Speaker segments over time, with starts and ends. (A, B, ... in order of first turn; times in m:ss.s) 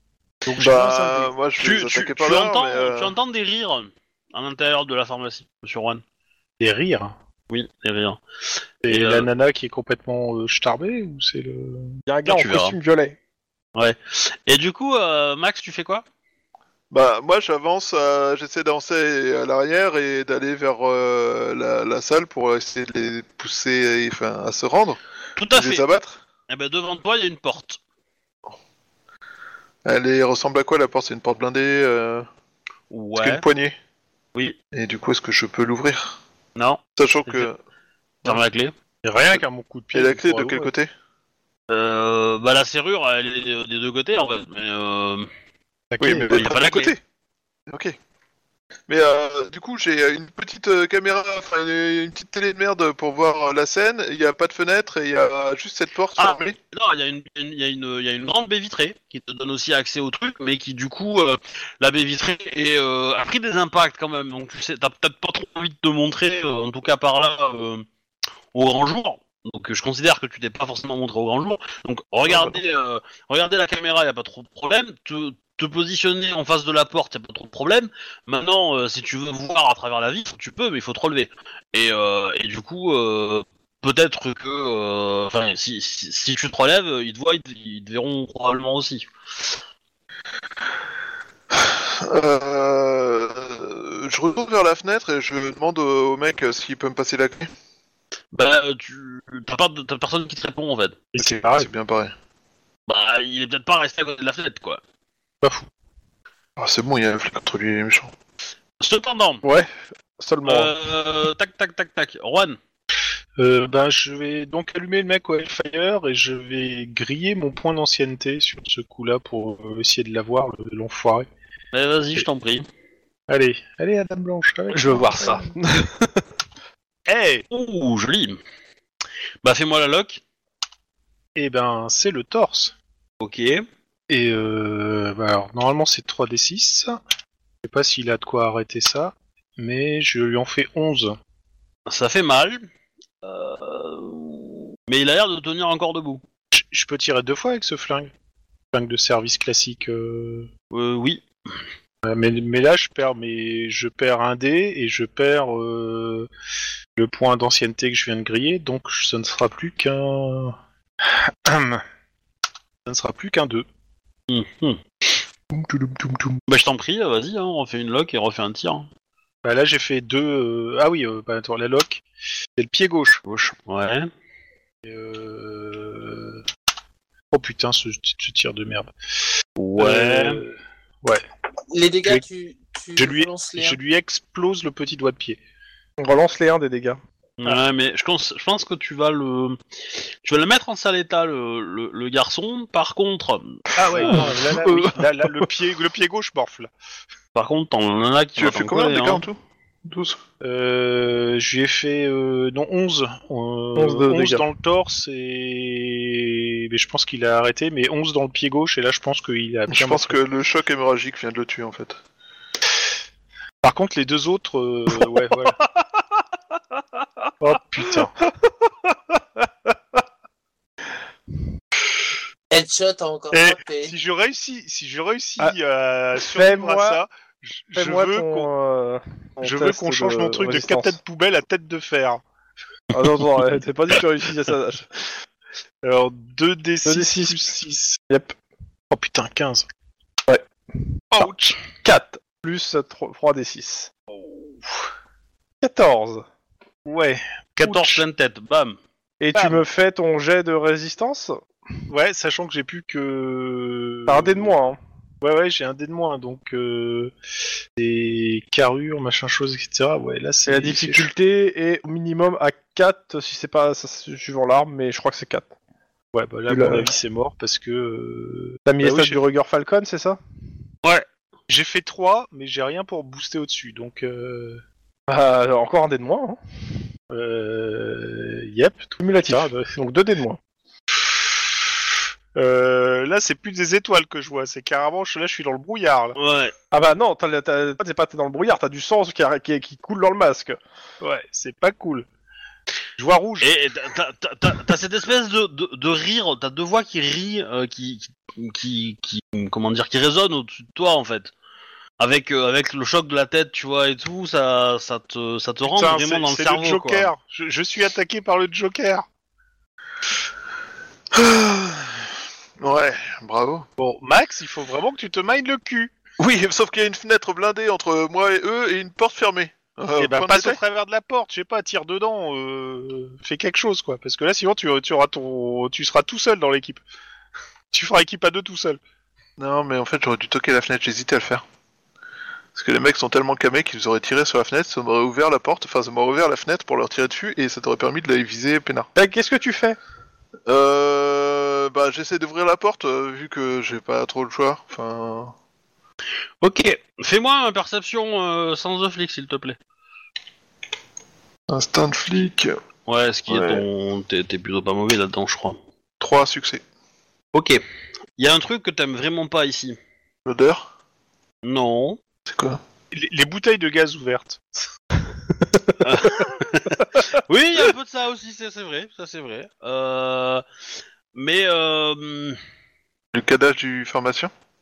0:00.4-0:01.3 A
0:00.6-0:03.1 B
0:01.6-0:06.0 C
0:06.6-0:07.1 A
0:07.5-0:08.2 C
0:08.8-0:12.0 A
0:08.9-0:09.3 C
0:12.1-0:13.2 D
0:12.3-0:12.8 C
0:13.7-0:16.0 C
0:16.9-0:25.0 B
0:25.4-0:25.9 C
0:25.5-0:26.2 B
0:26.5-0:27.8 C
0:29.8-0:32.3 B
0:32.9-0:33.4 C
0:33.2-0:33.7 B
0:34.7-0:36.2 B
0:36.6-0:37.5 C
0:37.0-0:37.6 B
0:38.2-0:38.7 C
0:39.0-0:40.7 A
0:39.9-0:40.9 B
0:41.7-0:45.3 C
0:45.9-0:46.5 A
0:46.0-0:47.0 B
0:46.3-0:46.9 C
0:47.7-0:48.0 B
0:48.9-0:56.6 B
0:56.2-1:07.9 C
1:08.5-1:29.1 C
1:31.5-1:37.5 B
1:38.3-1:41.0 C
1:41.1-1:41.7 A
1:41.2-1:42.1 B
1:42.9-1:44.8 C
1:45.4-1:45.7 A
1:46.6-1:48.1 B
1:48.8-1:49.4 C
1:49.4-1:50.7 D
1:50.4-1:52.6 C
1:53.4-2:01.3 A
2:01.7-2:02.7 C
2:03.3-2:05.5 A
2:04.7-2:06.2 D
2:07.1-2:07.4 A
2:07.5-2:08.4 C
2:09.4-2:10.2 C
2:11.4-2:12.7 A
2:13.2-2:13.6 C
2:14.1-2:17.0 A
2:17.6-2:21.2 A
2:21.9-2:22.6 C
2:23.2-2:26.2 C
2:26.5-2:28.1 A
2:28.7-2:30.5 A
2:30.7-2:31.2 C
2:32.0-2:36.3 A
2:37.0-2:41.8 A
2:42.9-2:43.6 A
2:44.3-2:44.8 C
2:45.7-2:46.3 D
2:46.5-2:48.9 C
2:49.4-2:52.0 A
2:52.6-2:53.2 A
2:53.2-2:54.1 C
2:54.8-2:56.4 A
2:57.3-2:58.9 A
2:59.6-3:00.4 C
2:59.8-3:01.2 A
3:01.7-3:03.8 E
3:03.0-3:05.4 A
3:06.0-3:07.0 D
3:07.4-3:09.6 C
3:10.2-3:14.2 C
3:13.8-3:16.7 A
3:13.9-3:15.5 D
3:17.4-3:19.2 C
3:18.4-3:20.2 B
3:20.4-3:30.2 A
3:23.8-3:24.4 D
3:29.7-3:32.0 B
3:33.6-3:35.6 A
3:37.4-3:38.2 A
3:38.9-3:39.4 D
3:42.5-3:43.9 E
3:43.3-3:48.5 A
3:46.2-3:47.0 D
3:47.8-3:51.0 D
3:49.4-3:52.2 A
3:52.9-3:55.1 D
3:55.8-3:58.0 A
3:56.8-3:57.4 D
3:58.1-3:58.3 D
3:58.9-3:59.6 A
4:01.1-4:01.6 A
4:01.8-4:03.9 D
4:05.6-4:06.2 D
4:06.9-4:08.0 A
4:07.6-4:08.8 C
4:09.2-4:11.4 D
4:09.3-4:09.6 A
4:11.9-4:14.5 A
4:14.1-4:14.8 D
4:15.2-4:17.1 A
4:17.8-4:21.1 A
4:20.5-4:25.5 D
4:26.1-4:29.2 A
4:26.5-4:26.9 D
4:28.6-4:30.2 D
4:31.5-4:34.6 A
4:35.1-4:36.4 D
4:37.1-4:39.7 A
4:39.0-4:40.4 D
4:42.4-4:46.2 A
4:46.2-4:46.5 C
4:46.7-4:50.6 D
4:51.0-4:52.1 A
4:53.0-4:53.5 A
4:53.4-5:01.3 C
5:02.0-5:07.1 C
5:05.6-5:09.0 A
5:11.1-5:13.6 B
5:13.8-5:15.9 A
5:16.2-5:20.6 B
5:20.0-5:26.8 A
5:27.7-5:28.8 A
5:29.4-5:31.4 B
5:32.6-5:38.9 B
5:39.0-5:39.8 D
5:40.4-5:45.3 B
5:46.4-5:49.6 C
5:51.5-5:52.5 B
5:52.9-5:55.6 C
5:53.3-5:53.6 B
5:56.0-5:56.6 B
5:57.3-5:57.6 C
5:58.2-5:59.8 C
6:00.3-6:00.7 B
6:01.4-6:02.0 C
6:02.3-6:02.6 B
6:02.9-6:04.6 A
6:05.8-6:10.4 C
6:11.1-6:12.4 C
6:13.1-6:14.3 B